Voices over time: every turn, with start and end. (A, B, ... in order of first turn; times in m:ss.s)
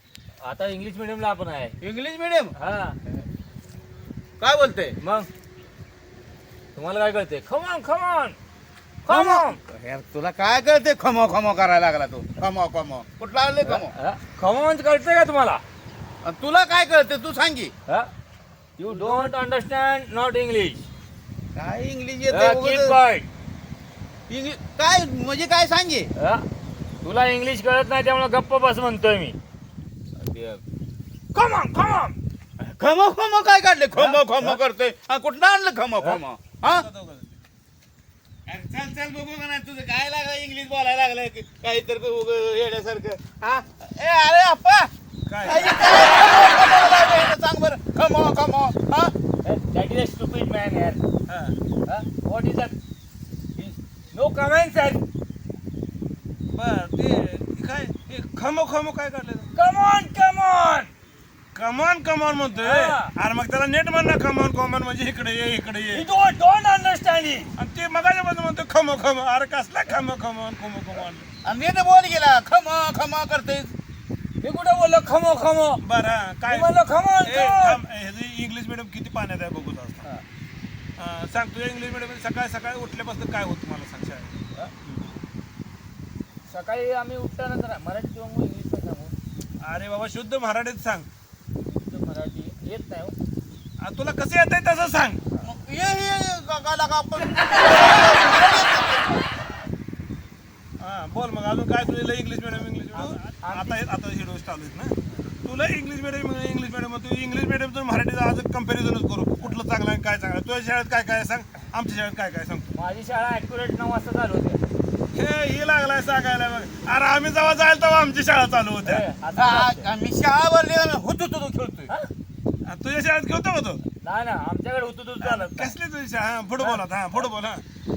0:00.4-0:01.8 A
0:01.8-0:02.5 B
0:02.6-0:03.0 A
0:04.4-0:05.0 B
0:05.0-0:05.3 A
0:06.8-0:08.4 A
0:09.0-0:09.6 A
0:09.1-0:14.0 B
0:13.6-0:15.6 A
0:16.2-0:17.7 B
0:18.8-0:20.9 A
0:21.6-0:23.0 B
0:22.3-0:23.3 A
0:24.3-0:26.1 B
0:26.2-0:26.4 A
0:27.0-0:29.4 A
0:30.2-0:30.6 A
0:31.3-0:32.2 A
0:32.6-0:36.9 B
0:34.0-0:34.6 A
0:36.6-0:37.4 C
0:38.5-0:44.9 B
0:45.3-0:45.8 C
0:45.4-0:49.1 B
0:49.4-0:51.0 A
0:51.3-0:51.6 C
0:51.9-0:52.8 A
0:53.6-0:55.0 A
0:56.5-0:59.5 C
0:59.6-1:00.9 A
1:01.5-1:06.0 C
1:02.6-1:03.1 A
1:05.9-1:07.5 A
1:07.6-1:11.3 C
1:11.4-1:13.7 B
1:14.4-1:15.8 A
1:15.8-1:16.7 C
1:16.5-1:17.8 A
1:17.2-1:20.0 C
1:21.0-1:25.1 C
1:26.5-1:29.2 A
1:29.6-1:31.1 C
1:31.7-1:33.2 A
1:33.8-1:35.2 C
1:35.4-1:39.2 B
1:40.8-1:52.8 C
1:42.9-1:43.8 A
1:52.7-1:54.6 A
1:55.1-1:59.0 C
1:58.8-1:59.9 A
1:59.4-2:01.9 B
2:02.7-2:03.8 C
2:04.0-2:05.7 A
2:05.2-2:07.6 C
2:06.6-2:07.3 A